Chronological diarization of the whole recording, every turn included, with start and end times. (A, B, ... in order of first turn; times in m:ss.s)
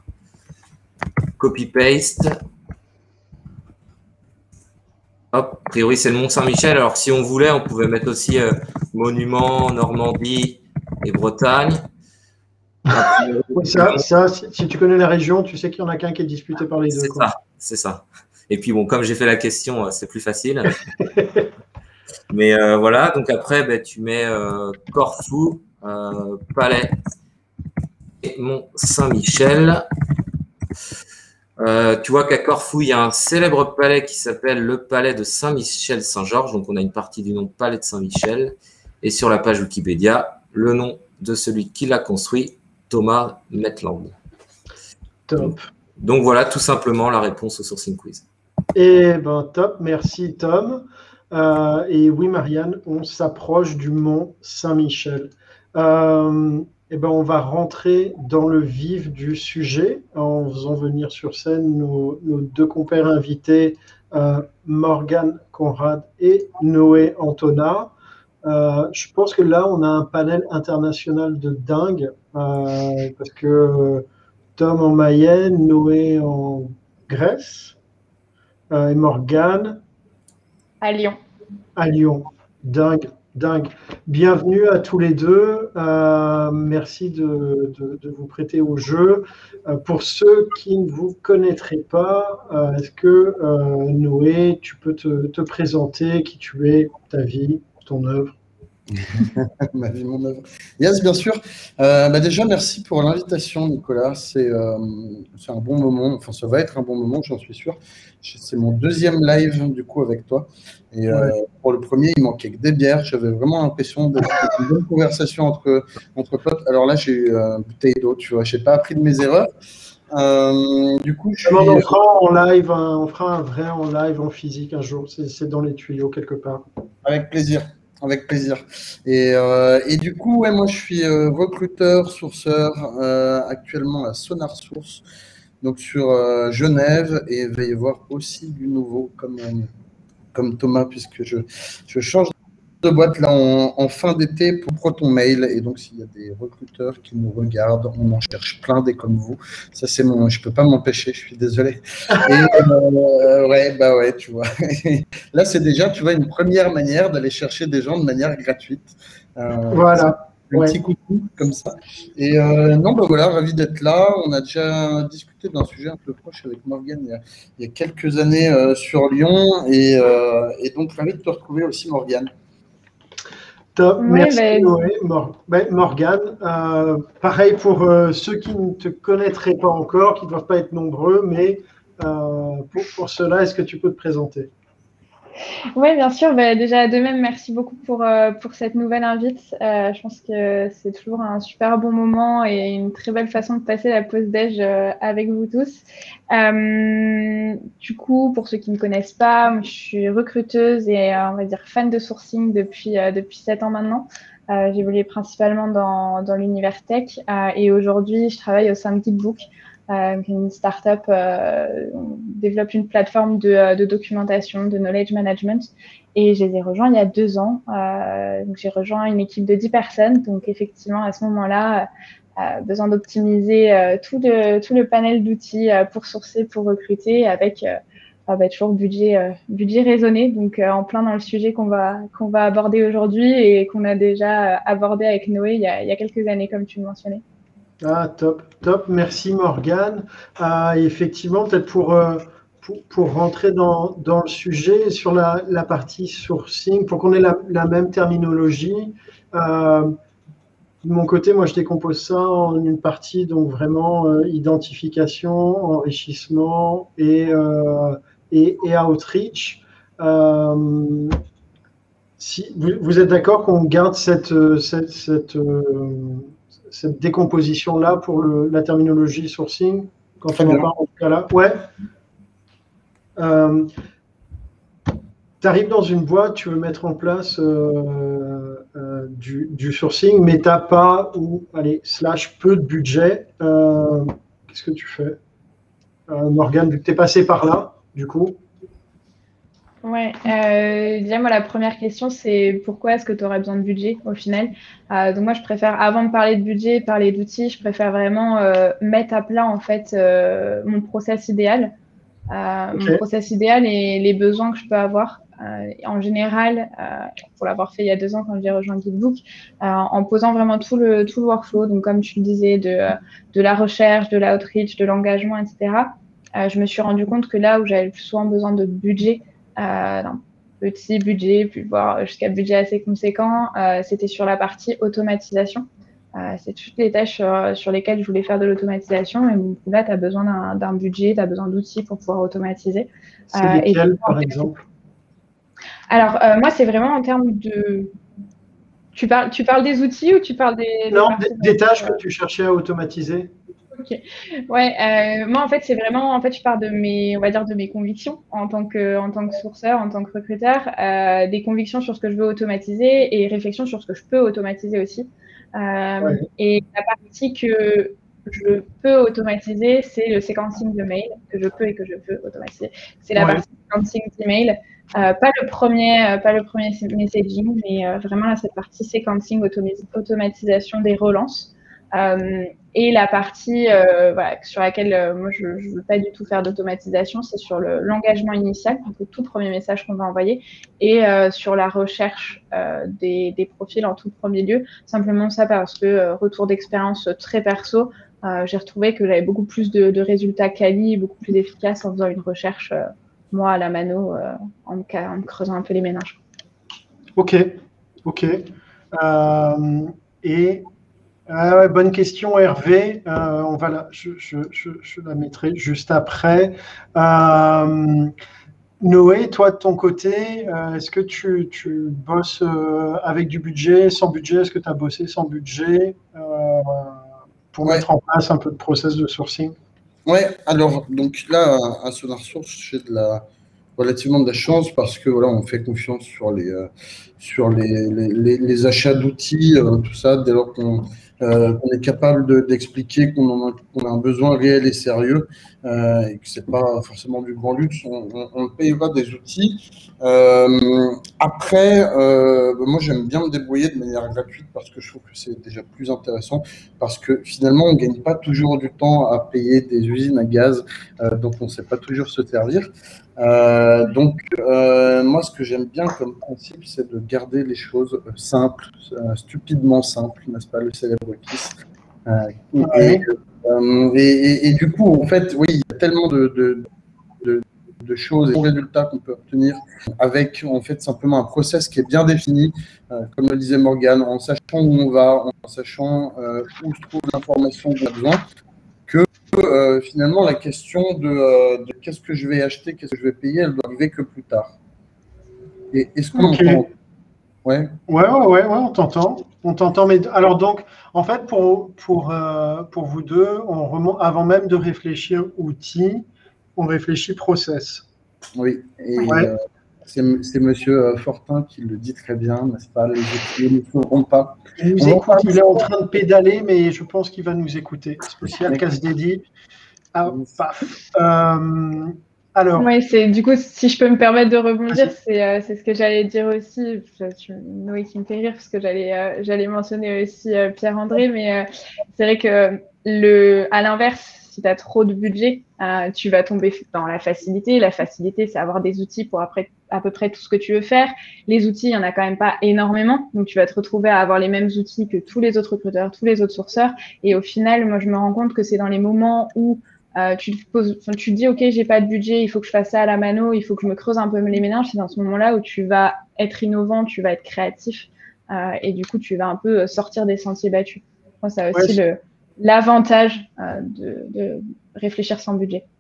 0:01.4-0:02.4 A
0:05.3-0:11.8 A
0:12.9-0:14.0 A
0:13.6-0:17.3 B
0:16.9-0:20.8 A
0:21.0-0:21.5 B
0:22.3-0:27.0 A
0:28.2-0:29.9 A
0:31.6-0:44.2 A
0:45.3-0:45.7 B
0:45.4-0:48.2 A
0:48.8-1:07.9 B
1:08.4-1:14.0 B
1:14.6-1:17.8 B
1:18.7-1:19.8 B
1:20.8-1:21.2 C
1:21.8-1:38.4 B
1:38.9-1:59.5 D
1:51.1-1:51.4 B
2:00.1-2:01.9 D
2:01.4-2:06.6 B
2:07.0-2:15.0 D
2:15.6-2:19.7 D
2:20.3-2:52.3 D
2:39.7-2:40.8 B
2:53.8-3:04.5 B
2:54.0-2:54.7 C
3:05.8-3:57.2 C
3:57.8-4:10.0 B
4:10.8-4:21.2 B
4:22.2-4:31.7 B
4:30.4-4:30.7 D
4:33.2-4:33.7 B
4:35.4-4:45.2 B
4:46.1-4:48.4 B
4:49.8-5:01.7 C
5:02.3-5:34.5 C
5:02.8-5:03.0 B
5:33.3-5:34.6 B
5:35.9-5:38.0 C
5:38.9-5:42.0 C
5:40.9-5:43.3 B
5:43.8-6:36.2 C
5:56.0-5:56.3 B
6:03.2-6:03.4 B
6:37.2-6:40.7 B
6:41.3-6:48.1 B
6:48.8-6:59.6 B
7:00.1-7:03.3 D
7:03.8-7:41.6 D
7:42.1-7:46.7 D
7:42.6-7:43.0 B
7:47.2-7:58.2 D
7:58.9-8:04.6 D
8:05.7-8:06.7 D
8:06.2-8:06.6 B
8:07.4-8:07.8 D
8:07.9-8:17.9 B
8:18.4-8:25.6 D
8:19.1-8:19.3 B
8:24.6-8:29.3 B
8:29.9-8:32.7 B
8:30.1-8:30.4 D
8:32.6-9:15.6 C
8:34.7-8:34.9 B
9:11.5-9:11.8 B